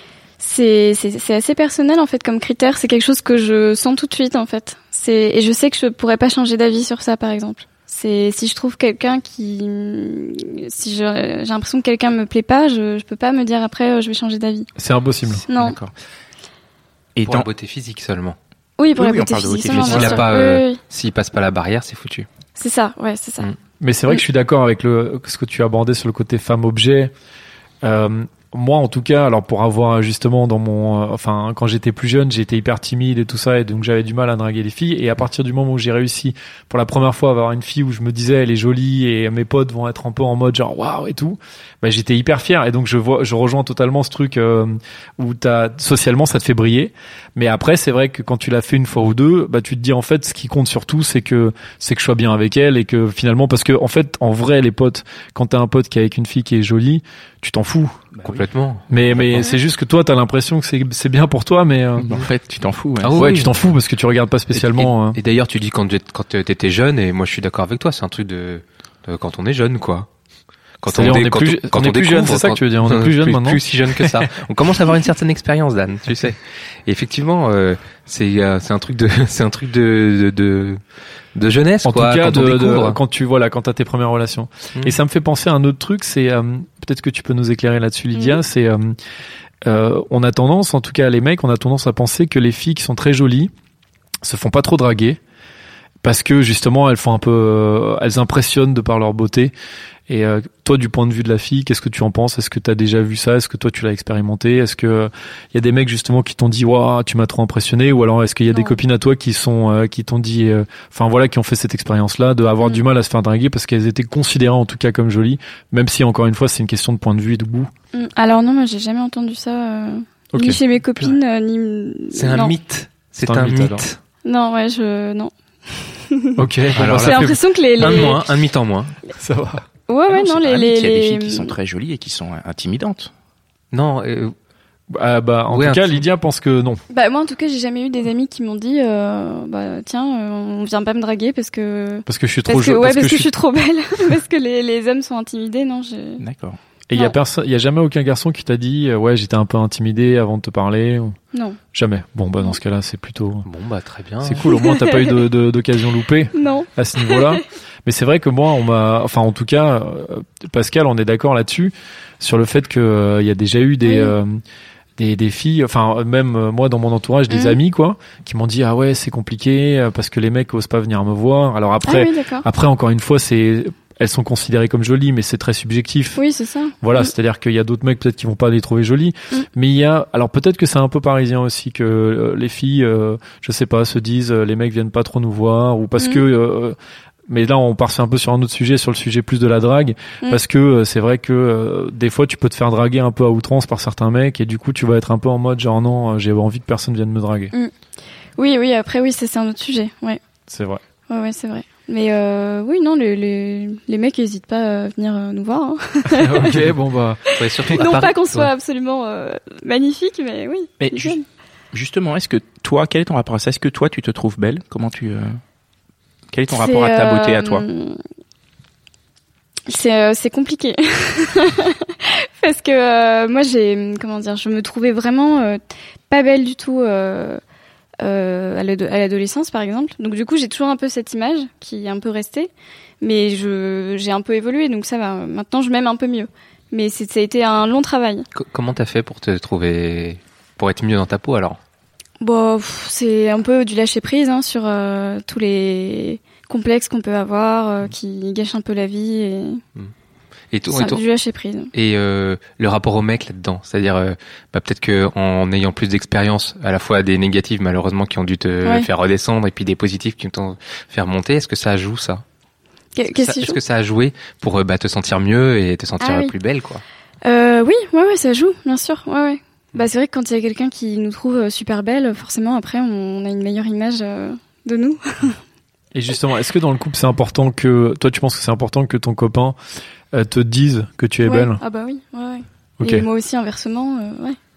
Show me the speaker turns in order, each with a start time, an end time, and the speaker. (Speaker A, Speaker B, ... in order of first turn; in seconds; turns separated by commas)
Speaker A: 0.4-14.7, Speaker B: 14.8-15.4, Speaker A: 15.5-15.8, Speaker C: 15.5-15.9, Speaker C: 17.2-17.5, Speaker D: 17.2-18.4, Speaker A: 18.8-20.8, Speaker C: 19.0-20.3, Speaker D: 19.7-22.3, Speaker A: 22.6-23.5, Speaker B: 23.8-27.1, Speaker B: 27.8-58.0, Speaker C: 58.1-58.5, Speaker D: 58.2-59.4, Speaker B: 58.9-62.1, Speaker C: 62.0-63.4, Speaker D: 63.0-63.5, Speaker B: 63.2-65.2, Speaker D: 64.5-70.1, Speaker D: 70.8-80.8, Speaker B: 70.9-74.3, Speaker D: 81.3-83.0, Speaker B: 81.8-89.0, Speaker B: 89.7-93.5, Speaker B: 94.2-95.2, Speaker B: 96.0-99.5, Speaker B: 100.1-117.7, Speaker A: 108.5-108.8, Speaker A: 117.9-122.5, Speaker B: 120.3-120.6, Speaker D: 122.1-124.0, Speaker B: 123.2-123.9, Speaker A: 124.2-128.3, Speaker B: 126.4-128.0, Speaker D: 126.7-128.9, Speaker B: 129.2-129.6, Speaker A: 129.9-131.5, Speaker C: 130.1-133.1, Speaker D: 133.7-134.3, Speaker B: 134.9-136.8, Speaker D: 135.5-136.0, Speaker A: 136.9-146.2, Speaker B: 142.1-143.3, Speaker C: 146.2-146.6, Speaker B: 146.9-151.2, Speaker A: 151.3-151.6, Speaker B: 151.7-153.5, Speaker D: 153.5-154.5, Speaker B: 154.2-164.4, Speaker A: 154.5-155.2, Speaker A: 156.3-157.4, Speaker A: 163.8-164.2, Speaker B: 165.0-176.2, Speaker A: 167.3-167.6, Speaker A: 171.8-172.5, Speaker A: 176.2-177.1, Speaker B: 176.8-186.8, Speaker A: 186.0-186.2, Speaker B: 187.3-197.5, Speaker A: 198.4-200.2, Speaker B: 200.5-200.8, Speaker A: 201.1-206.6, Speaker B: 206.1-208.0, Speaker A: 207.3-211.2, Speaker D: 207.4-208.5, Speaker C: 210.8-211.2, Speaker C: 211.7-215.4, Speaker C: 216.3-217.7, Speaker A: 216.5-218.0, Speaker A: 219.7-227.4, Speaker A: 228.0-238.3, Speaker D: 238.3-241.6, Speaker A: 242.2-249.6, Speaker D: 250.5-251.0, Speaker A: 250.7-251.7, Speaker D: 251.7-262.2, Speaker A: 263.0-263.6, Speaker D: 263.1-266.8, Speaker A: 266.0-266.3, Speaker A: 267.2-275.4, Speaker B: 275.9-279.6, Speaker B: 280.1-281.6, Speaker A: 281.2-284.4, Speaker B: 282.8-283.1